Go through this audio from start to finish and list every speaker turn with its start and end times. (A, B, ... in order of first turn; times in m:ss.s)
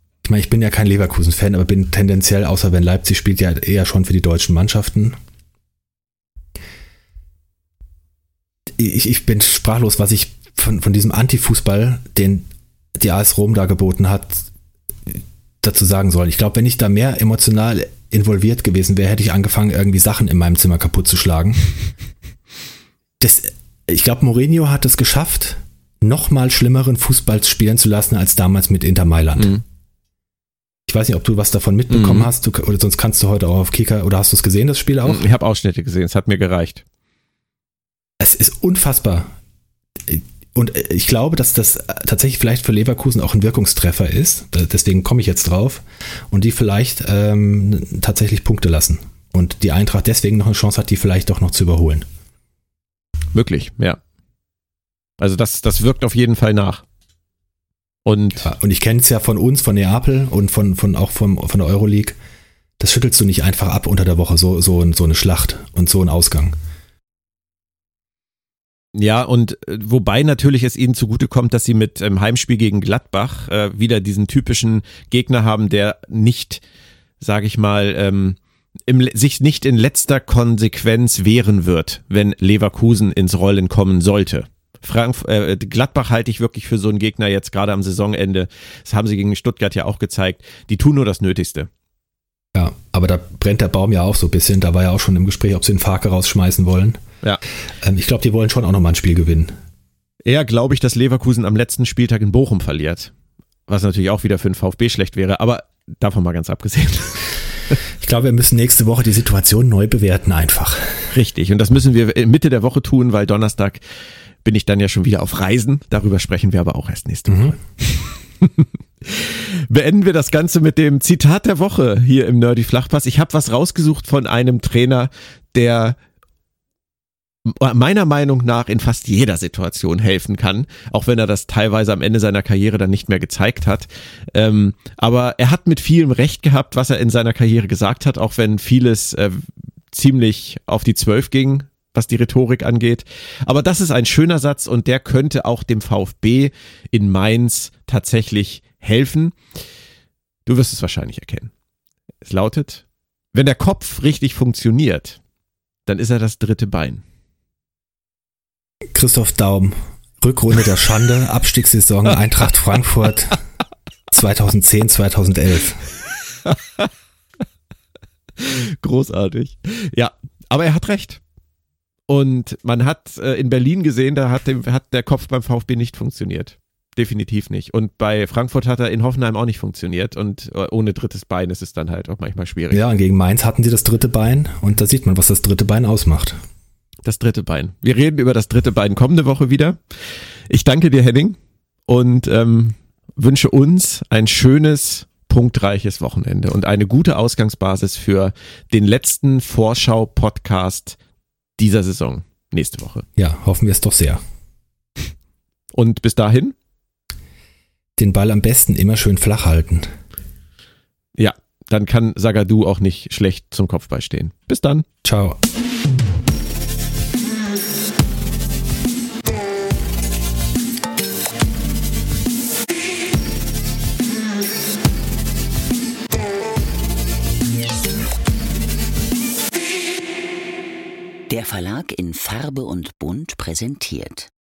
0:00.2-0:05.2 A
0:08.8-0:14.5 A
0:15.1-0:21.7 A
0:23.2-0:29.6 A
0:29.4-0:29.6 B
0:30.9-0:35.2 A
0:31.9-0:32.3 B
0:35.0-0:36.8 B
0:38.2-0:39.4 A
0:40.0-0:52.1 A
0:53.4-0:54.0 B
0:55.2-0:56.8 B
0:58.0-0:58.5 B
0:58.4-1:02.2 A
1:02.8-1:06.6 A
1:08.9-1:16.6 B
1:17.2-1:31.7 B
1:32.5-1:37.0 A
1:37.8-1:39.5 A
1:40.2-1:43.1 B
1:43.7-1:47.8 B
1:48.0-1:51.1 A
1:51.1-1:53.8 B
1:54.4-2:06.0 B
1:57.3-1:57.6 A
2:07.5-2:29.4 B
2:30.5-2:31.5 B
2:32.2-2:35.2 B
2:35.9-2:37.0 B
2:38.9-2:43.4 A
2:44.1-2:45.8 A
2:46.5-2:46.9 B
2:48.4-2:51.2 B
2:52.1-3:02.8 B
3:02.7-3:06.4 A
3:07.0-3:09.8 B
3:10.5-3:21.0 B
3:21.6-3:23.1 B
3:23.2-3:24.2 A
3:25.7-3:26.6 B
3:28.0-3:29.9 A
3:31.2-3:34.8 B
3:35.0-3:35.4 A
3:51.3-3:54.3 C